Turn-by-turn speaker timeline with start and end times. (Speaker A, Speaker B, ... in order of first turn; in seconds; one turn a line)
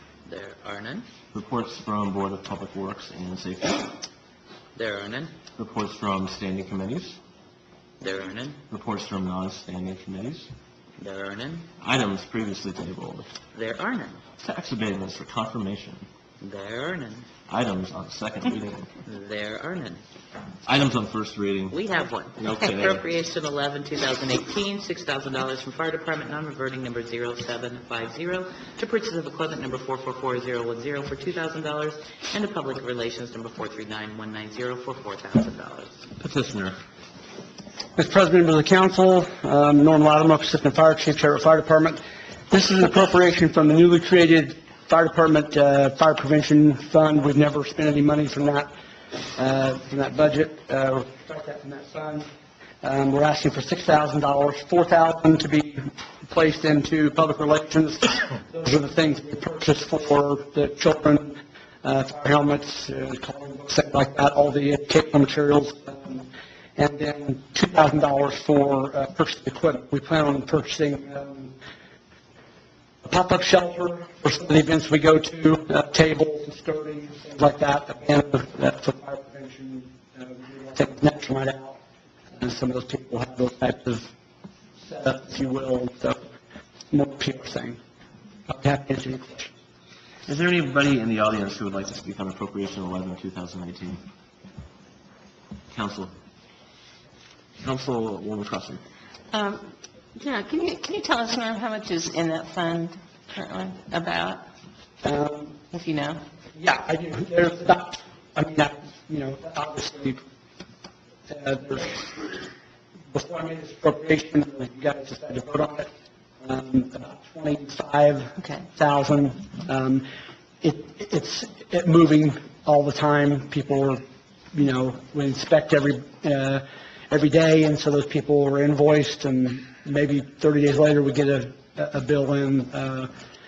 Speaker A: 0.2-1.0
Speaker B: 1.3-3.9
Speaker A: 4.7-5.3
Speaker B: 5.6-7.2
Speaker A: 8.0-8.6
Speaker B: 8.7-10.5
Speaker A: 11.0-11.7
Speaker B: 11.8-13.3
Speaker A: 13.5-14.2
Speaker B: 14.4-16.1
Speaker A: 16.4-17.2
Speaker B: 17.5-18.9
Speaker A: 19.1-20.0
Speaker B: 20.6-21.8
Speaker A: 21.7-36.0
Speaker B: 22.4-23.0
Speaker B: 36.2-36.7
Speaker C: 38.0-52.2
Speaker C: 52.8-71.5
Speaker C: 73.0-81.8
Speaker C: 82.3-84.1
Speaker C: 84.8-86.3
Speaker C: 86.9-87.8
Speaker C: 88.5-89.5
Speaker B: 90.3-94.0
Speaker B: 95.7-96.1
Speaker B: 97.6-98.8
Speaker D: 99.3-99.6
Speaker D: 100.2-104.4
Speaker C: 105.0-105.7
Speaker D: 105.7-106.2
Speaker C: 106.5-110.2
Speaker C: 111.3-112.5
Speaker C: 113.1-115.9
Speaker C: 116.4-120.0
Speaker C: 120.6-124.0
Speaker C: 124.5-133.1